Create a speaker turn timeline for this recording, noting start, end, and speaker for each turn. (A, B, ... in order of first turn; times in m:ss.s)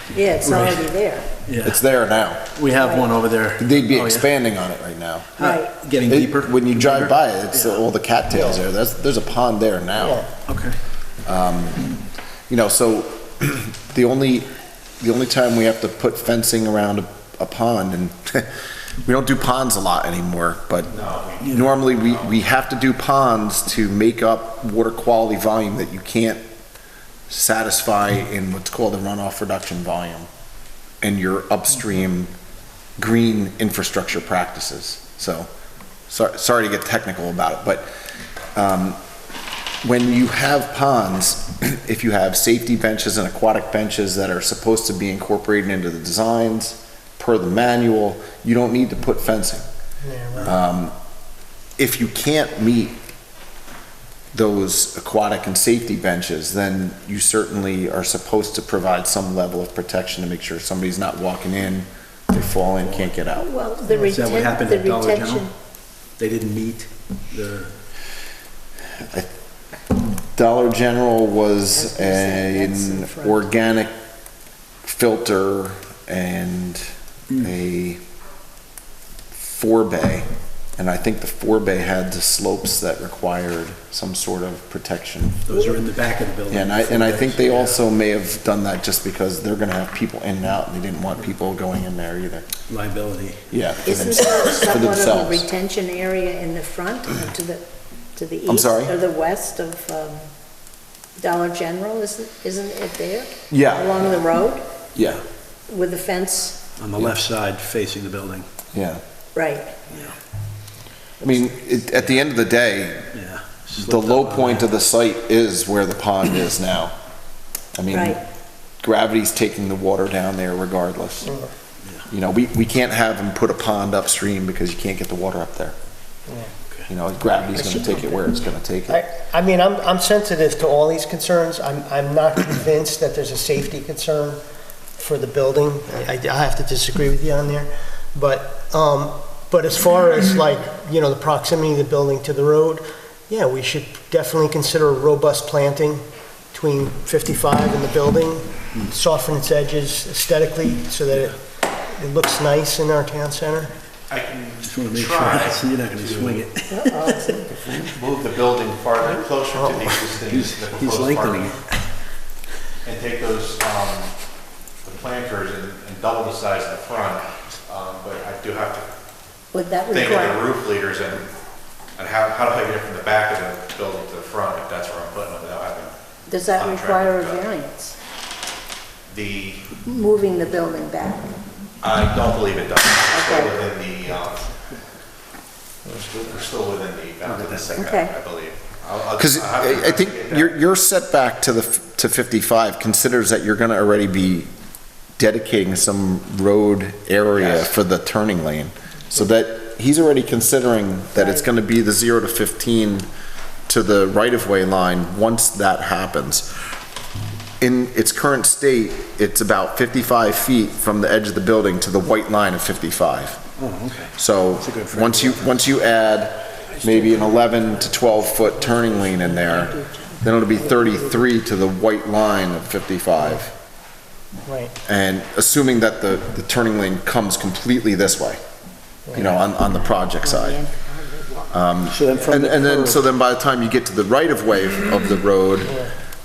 0:00.1-0:01.3 A
0:00.4-0:00.9 B
0:01.5-0:01.8 B
0:01.6-0:02.5 C
0:02.5-0:04.3 B
0:02.8-0:03.1 A
0:03.6-0:05.3 C
0:05.4-0:07.8 B
0:05.4-0:05.7 A
0:06.0-0:10.2 C
0:08.3-0:08.6 D
0:10.0-0:10.3 D
0:10.4-0:10.8 B
0:11.2-0:11.9 C
0:12.5-0:14.5 C
0:15.0-0:18.5 C
0:19.0-0:20.9 C
0:20.9-0:22.4 E
0:21.4-0:26.4 C
0:27.3-0:30.3 C
0:31.0-0:32.3 C
0:33.0-0:35.5 C
0:36.1-0:37.9 C
0:38.6-0:39.0 C
0:39.8-0:49.6 C
0:50.0-0:50.6 D
0:50.4-0:50.9 C
0:51.8-0:53.0 C
0:54.3-1:03.5 C
1:03.4-1:05.5 A
1:03.9-1:05.5 B
1:06.2-1:07.8 B
1:10.2-1:13.9 C
1:11.7-1:13.5 A
1:14.8-1:16.8 C
1:17.4-1:18.0 C
1:19.3-1:25.5 C
1:25.5-1:27.8 B
1:26.5-1:32.5 C
1:32.7-1:33.6 B
1:33.5-1:35.5 C
1:33.8-1:40.2 A
1:38.5-1:38.9 C
1:41.2-1:44.6 A
1:43.5-1:44.1 C
1:44.9-1:45.2 C
1:45.7-1:46.6 A
1:46.8-1:48.5 B
1:48.7-1:49.0 C
1:49.3-1:49.8 A
1:49.9-1:50.1 B
1:51.2-1:53.1 C
1:53.1-1:54.7 B
1:53.8-1:56.9 C
1:57.8-1:58.2 C
1:57.9-1:58.2 A
1:58.8-2:01.3 C
2:01.2-2:01.5 D
2:02.1-2:05.8 C
2:06.3-2:06.5 D
2:06.9-2:09.0 C
2:07.6-2:08.2 A
2:08.9-2:14.4 D
2:15.0-2:33.7 D
2:34.1-2:36.5 E
2:34.6-2:37.3 B
2:36.7-2:37.4 D
2:36.9-2:37.3 A
2:37.2-2:41.6 E
2:40.2-2:41.7 B
2:42.8-2:44.1 E
2:44.8-2:48.8 E
2:49.5-2:50.4 A
2:49.9-2:51.3 E
2:51.9-2:55.9 E
2:56.3-2:58.0 A
2:56.5-2:57.4 E
2:59.1-2:59.6 E
2:59.8-3:01.3 A
3:01.8-3:04.5 E
3:03.1-3:03.6 A
3:05.9-3:10.5 E
3:07.3-3:07.7 B
3:07.8-3:08.1 A
3:09.2-3:14.5 C
3:15.2-3:23.1 C
3:17.3-3:17.8 E
3:21.1-3:21.5 A
3:23.7-3:26.5 C
3:27.6-3:33.4 C
3:33.6-3:35.5 B
3:34.2-3:43.5 C
3:36.7-3:37.9 B
3:38.7-3:39.7 B
3:39.7-3:40.1 A
3:40.7-3:41.0 D
3:44.4-3:44.7 D
3:44.8-3:48.4 C
3:49.1-3:49.3 D
3:49.1-3:50.6 C
3:49.8-3:51.6 A
3:51.5-3:55.8 C
3:51.9-3:53.0 B
3:55.6-3:55.9 D